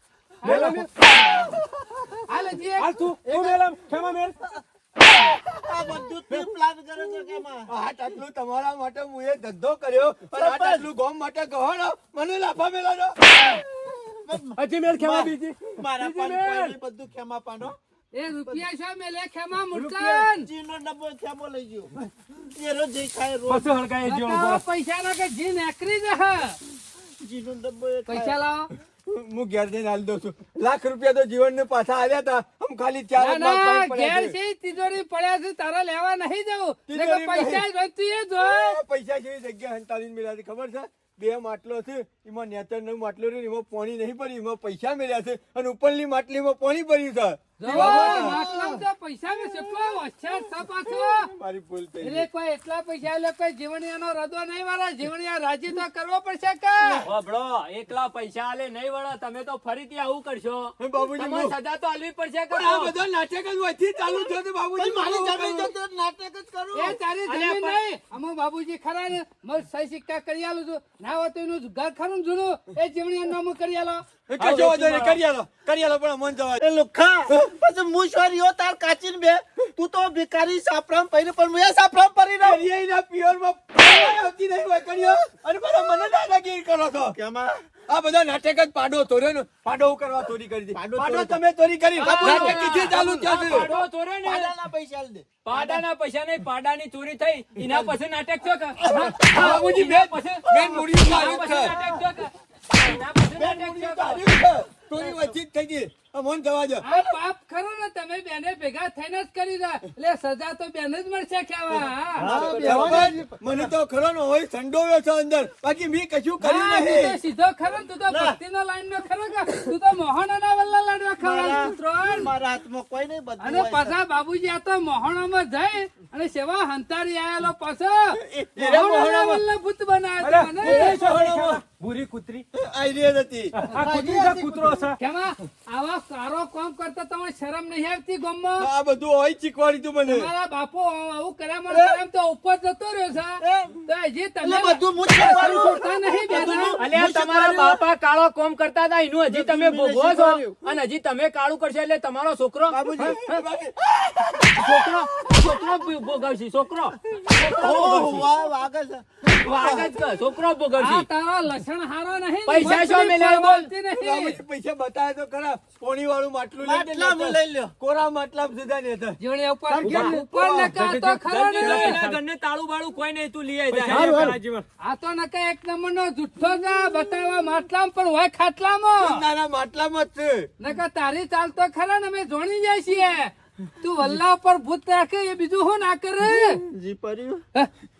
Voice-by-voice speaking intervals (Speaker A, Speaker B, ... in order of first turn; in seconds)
Speaker A: 0.4-0.9, 2.3-3.0, 18.1-20.5, 24.0-26.6, 28.1-28.7, 33.2-38.8, 47.6-51.3, 52.0-57.1, 66.7-74.0, 92.0-92.6, 98.9-99.2, 106.8-112.3, 116.4-122.3, 123.4-131.0, 135.0-138.7, 140.1-146.8, 160.8-164.4, 169.2-172.0, 174.8-179.2, 180.6-186.6
Speaker B: 0.4-2.2, 3.2-3.6, 4.5-7.7, 10.3-10.9, 13.5-17.8, 19.7-23.7, 27.2-28.4, 47.7-48.8, 56.8-57.1, 64.8-67.0, 76.6-82.6, 87.2-87.5, 90.7-91.4, 92.3-95.8, 97.6-97.9, 98.8-99.2, 100.5-102.0, 105.0-105.3, 112.2-113.7, 118.1-118.4, 121.2-124.0, 133.8-134.8, 143.4-143.8, 144.4-147.8, 149.3-150.6, 152.7-153.3, 154.2-154.9, 157.2-159.9, 166.6-167.7, 169.7-170.2, 173.9-174.4, 186.6-187.4
Speaker C: 0.5-0.9, 2.8-4.4, 14.6-16.8, 23.5-24.6, 112.3-113.0, 130.2-132.5, 133.5-135.0, 170.7-172.2, 173.7-174.7
Speaker D: 7.7-13.2, 29.1-34.4, 36.9-37.6, 38.4-48.4, 51.3-52.3, 60.8-61.5, 62.5-65.7, 74.3-76.6, 82.4-87.2, 87.9-93.7, 98.9-101.8, 103.4-106.9, 112.3-117.2, 128.3-129.4, 130.6-131.6, 132.6-133.6, 138.6-140.3, 141.7-142.0, 153.2-155.5, 163.9-169.2, 169.8-170.7, 179.0-180.5
Speaker E: 57.0-62.9, 67.2-67.8, 74.4-75.2, 92.0-94.5, 95.4-104.2, 146.7-153.4, 154.6-158.3, 159.4-161.1, 162.5-163.7, 171.3-174.2